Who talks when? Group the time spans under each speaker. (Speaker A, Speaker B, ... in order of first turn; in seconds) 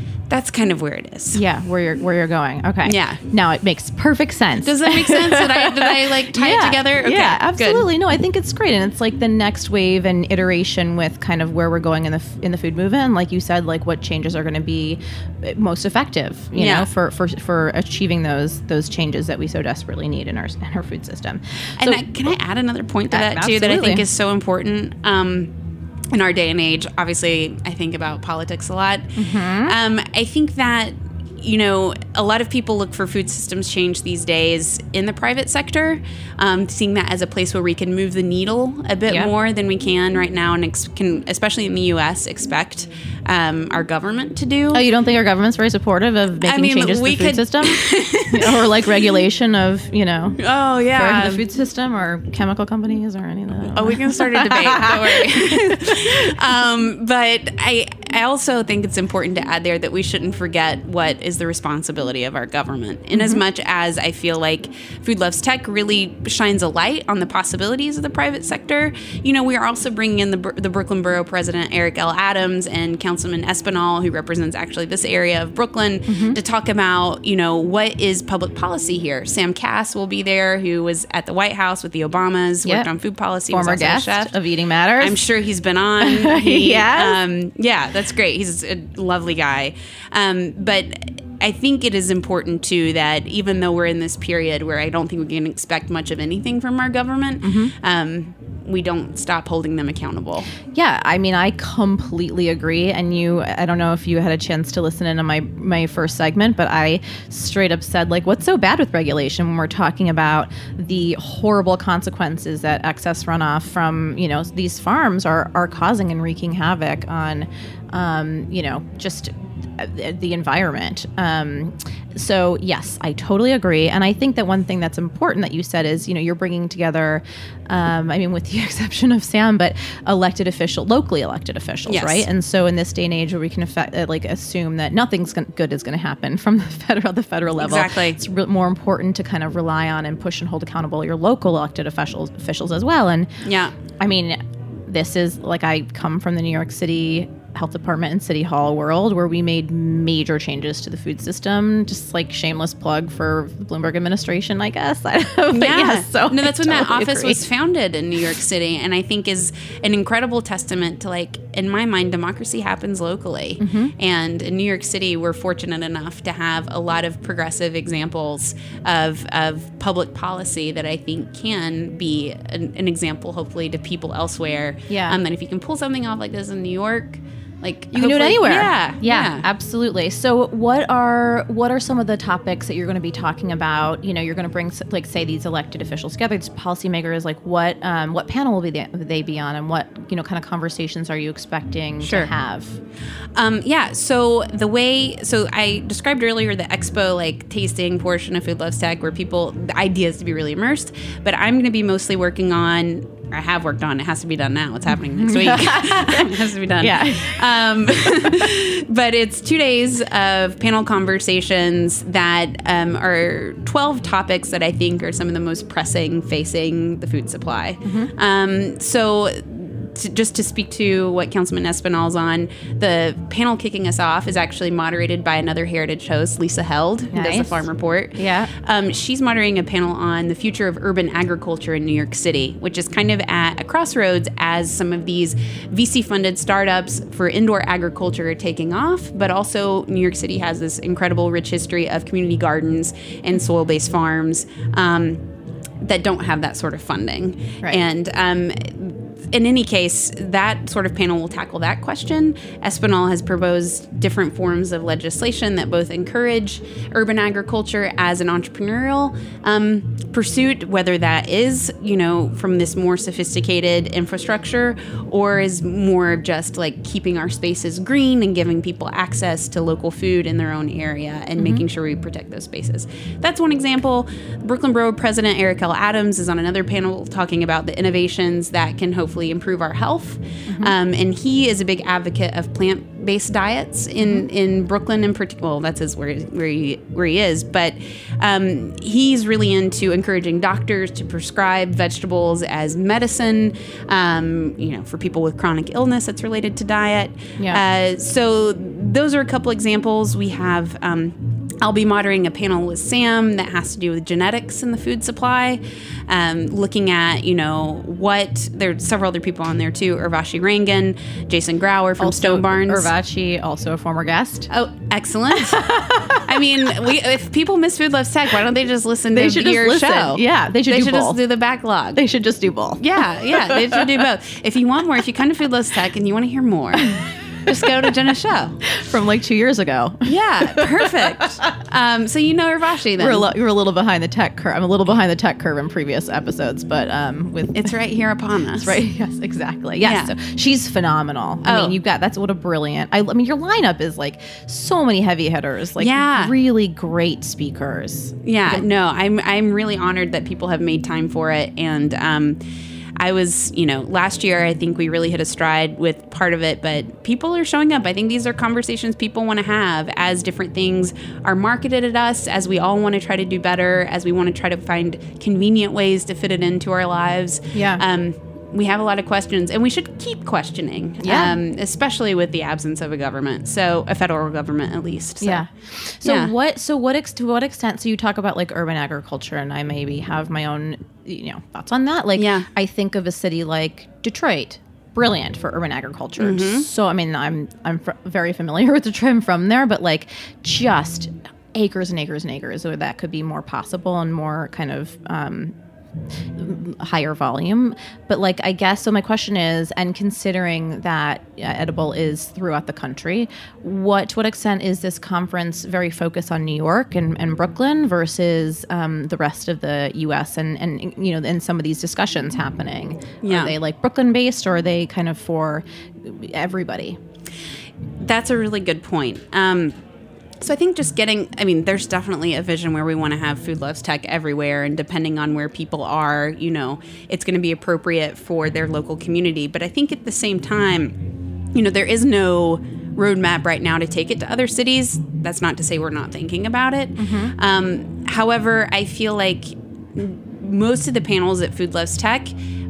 Speaker A: 0.3-1.4, 2.9-3.2, 4.6-7.9, 16.5-16.9, 21.8-25.5, 26.1-44.8, 46.5-48.7, 50.4-51.5, 53.7-84.3, 85.0-100.5, 131.9-132.3, 137.6-138.2, 143.4-143.7, 155.5-179.5, 192.0-192.3, 193.3-245.2, 245.8-312.9, 314.5-322.0, 322.8-326.9, 327.5-328.6, 330.1-333.3, 337.6-338.8, 339.8-340.1, 341.4-341.8, 345.8-346.3, 348.2-352.4, 353.0-375.5, 376.0-376.3, 382.2-382.5, 386.2-386.7, 413.2-413.6, 418.0-419.8, 420.4-430.9, 431.6-442.4
Speaker B: 1.3-22.3, 23.1-24.0, 29.2-29.8, 44.7-50.4, 50.9-56.1, 63.1-63.4, 76.1-76.4, 83.5-85.2, 86.0-87.2, 97.4-97.7, 100.7-143.4, 144.0-157.5, 163.6-163.9, 174.9-175.2, 177.9-192.8, 204.9-208.5, 217.8-218.1, 227.1-228.5, 271.4-271.6, 280.5-280.8, 312.0-314.5, 315.3-316.7, 319.1-321.2, 321.9-324.1, 326.8-327.5, 328.7-331.3, 333.0-337.8, 338.6-348.7, 367.5-367.8, 371.0-371.4, 375.2-395.6, 396.4-417.0, 437.0-437.3